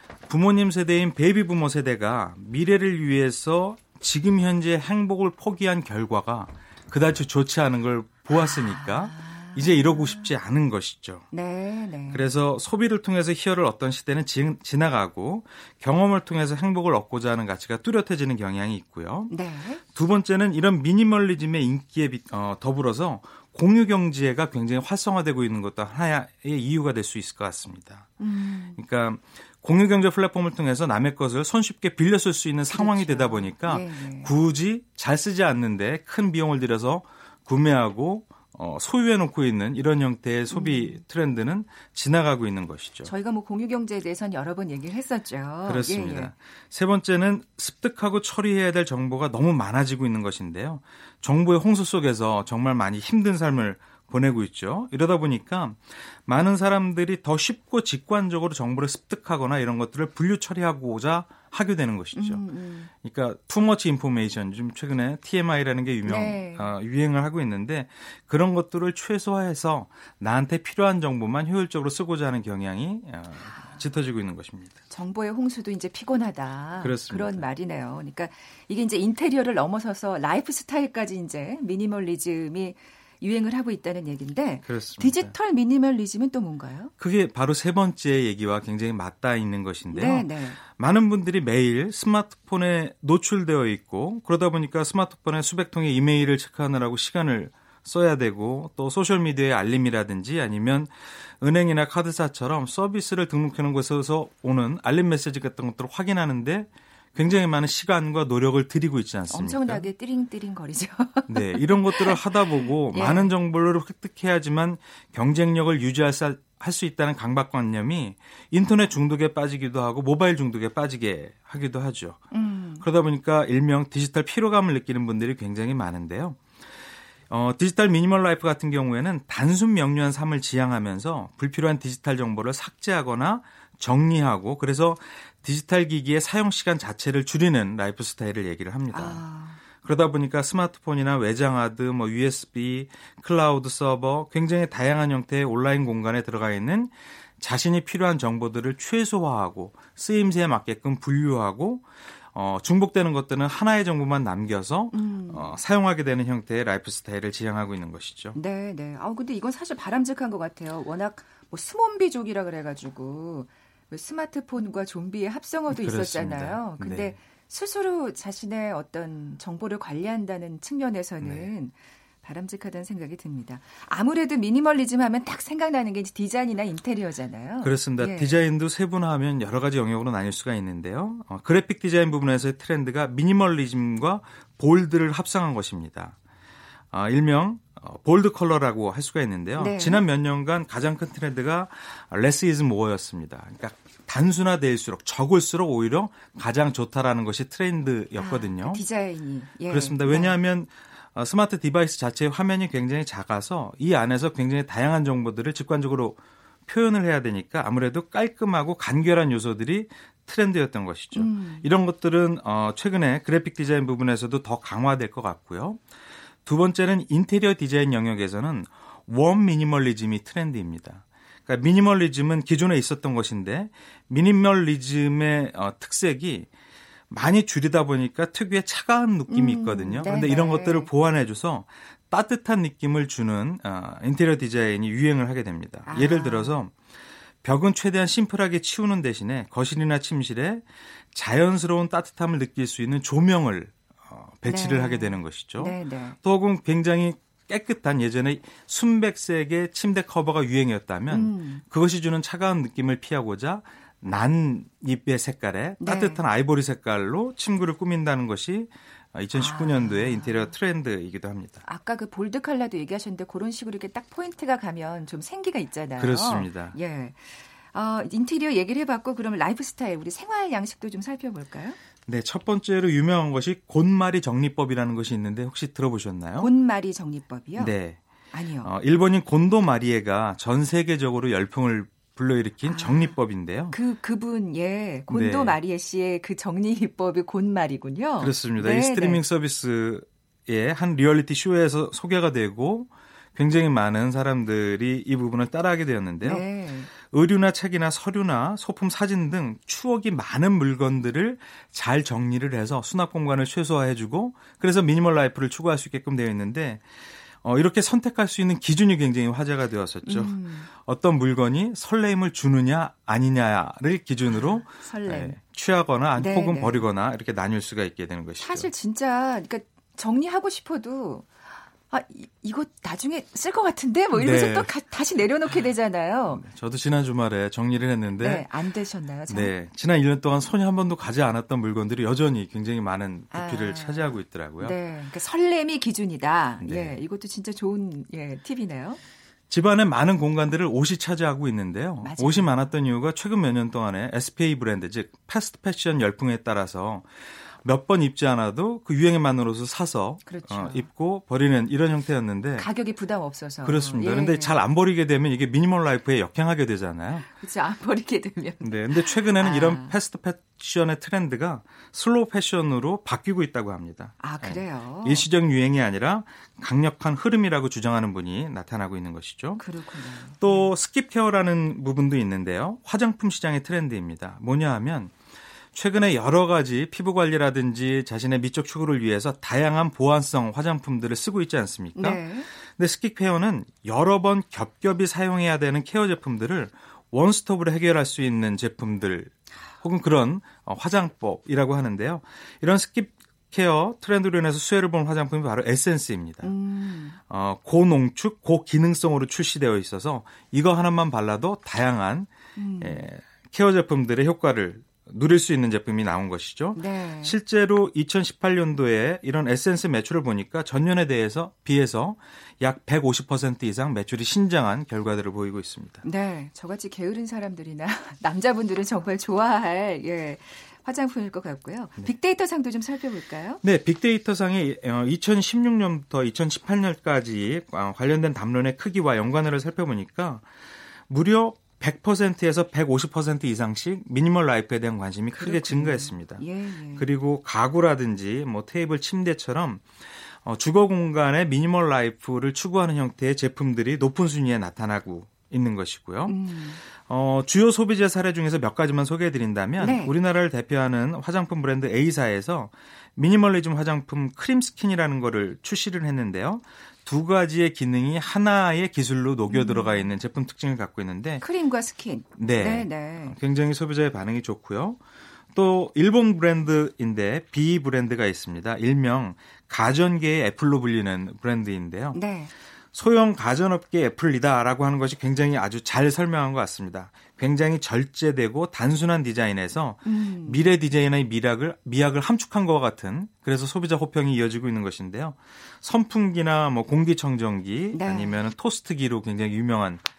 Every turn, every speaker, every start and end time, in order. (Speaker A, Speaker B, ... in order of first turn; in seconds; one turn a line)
Speaker A: 0.3-11.3
Speaker B: 8.3-10.3
Speaker B: 11.3-12.2
Speaker A: 12.1-19.3
Speaker B: 19.3-19.8
Speaker A: 19.8-28.1
Speaker B: 28.2-28.8
Speaker A: 28.8-43.1
Speaker B: 32.7-34.3
Speaker B: 40.5-41.0
Speaker B: 43.0-46.3
Speaker A: 45.7-62.4
Speaker B: 62.1-62.9
Speaker A: 63.0-74.8
Speaker B: 66.0-66.7
Speaker B: 74.9-86.9
Speaker A: 76.8-77.4
Speaker A: 84.7-85.3
Speaker A: 87.0-109.8
Speaker B: 89.9-90.6
Speaker B: 109.3-113.3
Speaker A: 111.3-122.3
Speaker B: 122.3-122.8
Speaker A: 122.8-126.4
Speaker A: 127.3-139.2
Speaker B: 138.9-139.6
Speaker A: 139.8-158.4
Speaker B: 154.9-155.6
Speaker B: 158.3-178.4
Speaker A: 165.7-167.2
Speaker A: 171.2-171.5
Speaker A: 177.6-186.2
Speaker A: 186.9-198.8
Speaker B: 189.6-190.0
Speaker B: 198.2-200.4
Speaker A: 199.7-215.8
Speaker B: 211.1-211.7
Speaker A: 216.4-226.5
Speaker A: 227.1-236.8
Speaker B: 229.3-230.9
Speaker B: 235.9-236.6
Speaker A: 237.4-261.6
Speaker B: 244.5-246.2
Speaker B: 251.1-251.6
Speaker B: 255.8-256.2
Speaker B: 259.3-260.5
Speaker B: 261.7-271.8
Speaker A: 266.0-266.8
Speaker A: 272.1-276.5
Speaker B: 276.4-277.7
Speaker A: 277.6-278.0
Speaker B: 278.3-278.7
Speaker A: 278.6-283.8
Speaker B: 282.7-283.2
Speaker B: 283.7-289.2
Speaker A: 285.1-285.6
Speaker A: 288.2-296.5
Speaker B: 296.2-296.9
Speaker A: 297.0-306.9
Speaker A: 307.4-318.7
Speaker B: 310.1-310.7
Speaker B: 314.3-315.4
Speaker B: 316.2-316.9
Speaker B: 318.4-326.4
Speaker A: 324.1-324.7
Speaker A: 326.3-328.5
Speaker B: 328.2-329.5
Speaker A: 329.3-334.8
Speaker B: 333.3-339.0
Speaker A: 336.6-337.0
Speaker A: 339.5-352.7
Speaker B: 342.0-342.5
Speaker B: 350.2-350.9
Speaker B: 352.6-354.6
Speaker A: 353.6-357.3
Speaker B: 357.3-359.9
Speaker A: 358.6-369.6
Speaker B: 364.2-365.2
Speaker B: 369.6-370.7
Speaker A: 370.4-375.1
Speaker A: 375.7-396.5
Speaker B: 382.0-382.5
Speaker B: 396.4-397.2
Speaker A: 397.3-402.3
Speaker B: 402.6-403.0
Speaker A: 402.8-416.0
Speaker B: 406.8-407.4
Speaker B: 416.0-423.6
Speaker A: 423.6-430.5
Speaker A: 431.1-461.4
Speaker B: 435.4-437.1
Speaker B: 446.3-446.8
Speaker B: 449.8-450.1
Speaker B: 459.5-460.1
Speaker B: 461.4-463.4
Speaker A: 462.4-465.0
Speaker A: 465.5-472.2
Speaker B: 472.1-472.5
Speaker A: 472.9-490.0
Speaker B: 480.1-480.7
Speaker B: 487.9-488.4